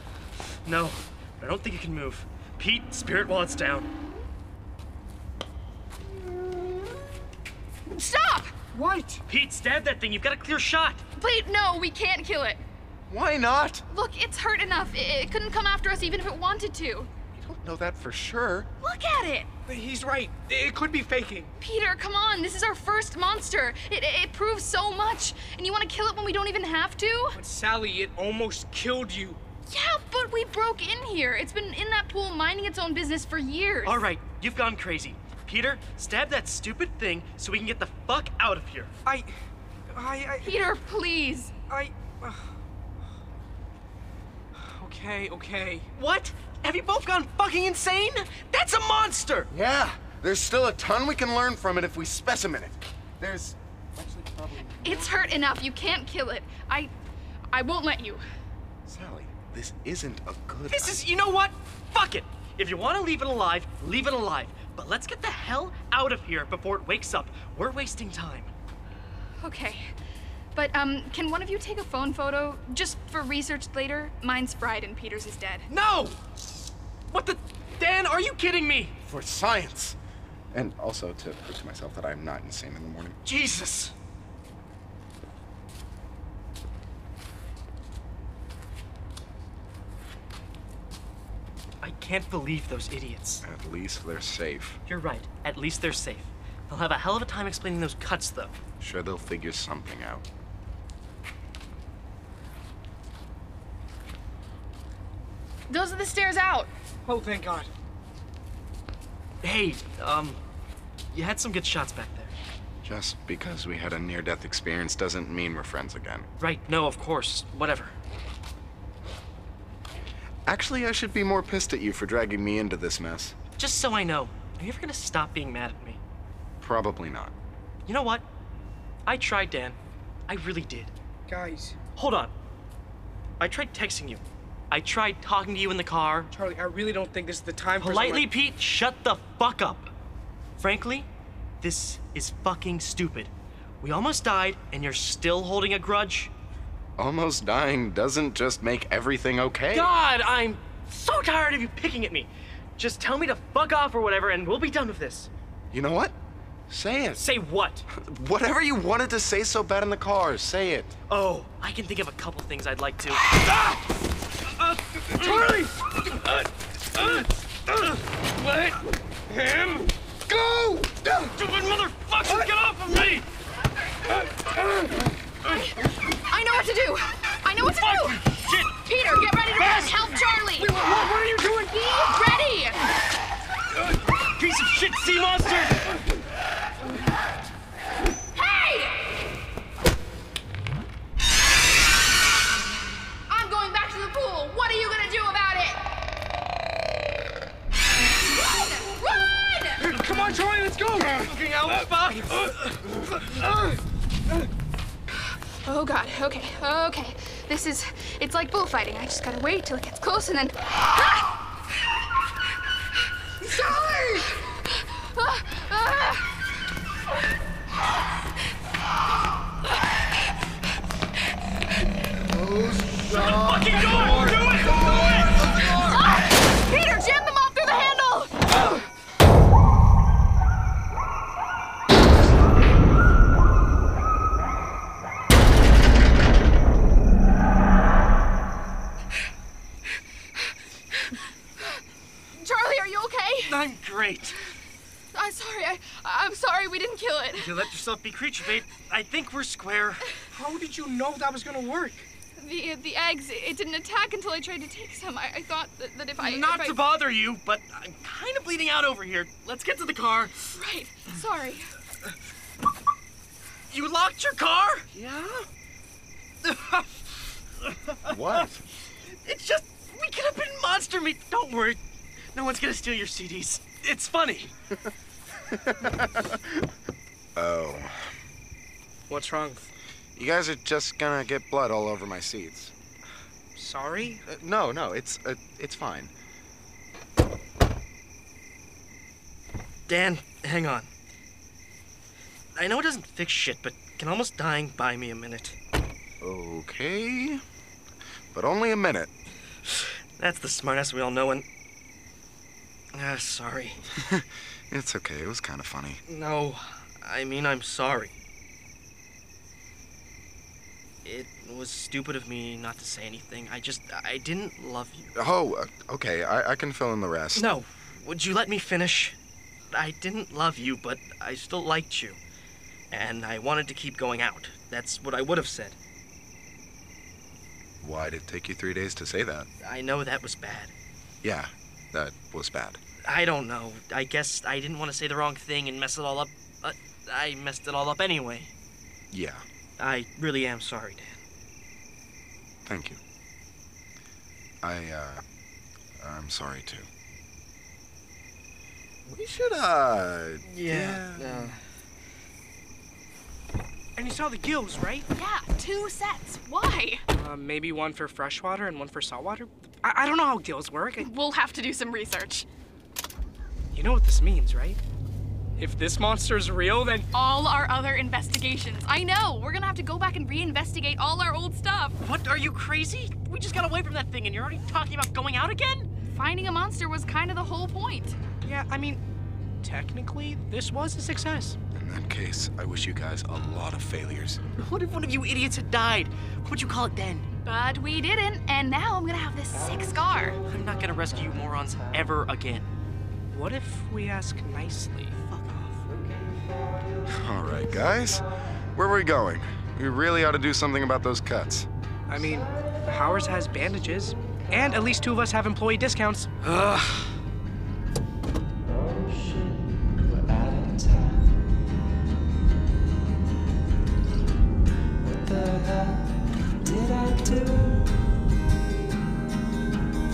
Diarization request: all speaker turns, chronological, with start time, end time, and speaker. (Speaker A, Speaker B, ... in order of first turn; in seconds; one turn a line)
Speaker A: 0.7-3.9
Speaker B: 7.9-8.6
Speaker C: 8.7-9.2
Speaker A: 9.3-11.0
Speaker B: 11.2-12.6
Speaker D: 13.1-13.9
Speaker B: 13.9-17.1
Speaker D: 17.4-18.7
Speaker B: 18.8-19.5
Speaker C: 19.7-21.5
Speaker B: 21.6-27.4
Speaker C: 27.4-29.4
Speaker B: 29.7-34.0
Speaker A: 33.9-38.9
Speaker C: 39.0-39.3
Speaker C: 39.9-40.6
Speaker B: 40.4-41.5
Speaker C: 41.7-42.5
Speaker C: 44.7-45.9
Speaker A: 46.0-49.5
Speaker D: 49.5-55.5
Speaker B: 54.8-56.9
Speaker B: 57.5-58.2
Speaker D: 58.9-61.0
Speaker A: 60.7-68.5
Speaker B: 69.4-69.9
Speaker B: 70.5-75.7
Speaker A: 75.7-76.2
Speaker A: 77.1-79.0
Speaker D: 79.0-80.0
Speaker D: 80.5-83.2
Speaker A: 83.2-83.9
Speaker A: 91.8-93.5
Speaker D: 93.4-94.8
Speaker A: 94.9-98.6
Speaker D: 98.8-100.2
Speaker B: 105.7-106.7
Speaker C: 107.1-107.7
Speaker A: 109.4-110.4
Speaker A: 111.1-112.3
Speaker D: 112.8-116.3
Speaker A: 116.4-118.0
Speaker D: 120.5-123.3
Speaker A: 123.6-126.0
Speaker D: 126.6-127.3
Speaker A: 127.9-128.3
Speaker A: 129.1-129.8
Speaker A: 130.3-130.9
Speaker C: 131.3-131.8
Speaker A: 132.0-132.3
Speaker A: 133.4-136.3
Speaker C: 136.3-138.3
Speaker A: 137.8-139.9
Speaker A: 140.6-141.1
Speaker A: 141.6-146.3
Speaker D: 147.0-149.9
Speaker A: 149.7-155.3
Speaker D: 155.7-156.2
Speaker D: 156.7-157.2
Speaker A: 157.2-157.9
Speaker D: 157.9-160.9
Speaker A: 161.1-163.2
Speaker C: 164.8-165.8
Speaker A: 165.2-165.5
Speaker C: 167.0-167.2
Speaker C: 168.4-171.3
Speaker A: 171.3-173.2
Speaker B: 176.3-178.2
Speaker A: 177.6-178.8
Speaker B: 178.9-180.7
Speaker C: 179.6-179.9
Speaker C: 180.6-181.8
Speaker B: 181.7-182.9
Speaker A: 184.3-185.8
Speaker B: 188.3-188.9
Speaker B: 193.3-195.8
Speaker B: 198.3-199.8
Speaker C: 199.8-203.8
Speaker A: 201.0-202.4
Speaker B: 205.7-211.2
Speaker B: 213.4-216.3
Speaker D: 222.2-226.1
Speaker A: 223.1-225.4
Speaker B: 225.8-228.5
Speaker B: 240.9-241.8
Speaker B: 242.4-243.6
Speaker A: 243.4-244.4
Speaker B: 245.1-247.7
Speaker A: 247.4-250.0
Speaker C: 250.3-252.1
Speaker B: 252.4-256.8
Speaker A: 256.2-260.5
Speaker B: 260.6-261.7
Speaker A: 263.7-264.9
Speaker D: 264.9-265.5
Speaker A: 266.4-266.9
Speaker A: 267.6-268.5
Speaker D: 268.0-268.6
Speaker A: 269.1-271.8
Speaker A: 272.3-274.5
Speaker D: 275.5-276.7
Speaker D: 277.4-278.1
Speaker C: 279.1-279.7
Speaker D: 280.2-282.7
Speaker C: 283.6-284.2
Speaker D: 284.3-286.1
Speaker A: 289.9-290.9
Speaker A: 292.6-295.6
Speaker D: 296.2-297.4
Speaker D: 298.3-299.1
Speaker A: 299.7-301.5
Speaker A: 302.9-303.9
Speaker D: 304.0-306.0
Speaker A: 306.1-308.1
Speaker A: 311.1-315.1
Speaker D: 315.1-317.5
Speaker A: 317.4-319.2
Speaker A: 319.7-322.2
Speaker A: 322.9-325.8
Speaker D: 327.8-329.5
Speaker A: 329.6-330.7
Speaker D: 331.2-332.8
Speaker A: 333.0-338.5
Speaker D: 339.1-339.4
Speaker A: 339.8-341.2
Speaker D: 342.7-343.0
Speaker D: 344.6-345.2
Speaker D: 346.0-346.9
Speaker D: 349.1-351.6
Speaker A: 350.4-351.6
Speaker C: 354.0-355.1
Speaker B: 355.1-357.1
Speaker C: 357.1-361.1
Speaker B: 361.0-362.5
Speaker C: 363.7-364.8
Speaker C: 365.6-367.1
Speaker B: 367.1-372.0
Speaker A: 372.0-375.9
Speaker B: 376.1-378.2
Speaker C: 378.4-379.0
Speaker C: 379.6-381.6
Speaker D: 381.7-384.4
Speaker A: 384.6-387.3
Speaker B: 387.4-390.4
Speaker A: 390.5-392.7
Speaker C: 393.3-395.2
Speaker A: 395.3-395.8
Speaker E: 395.9-397.0
Speaker D: 397.1-401.7
Speaker C: 402.1-407.2
Speaker E: 408.6-411.6
Speaker E: 415.0-418.1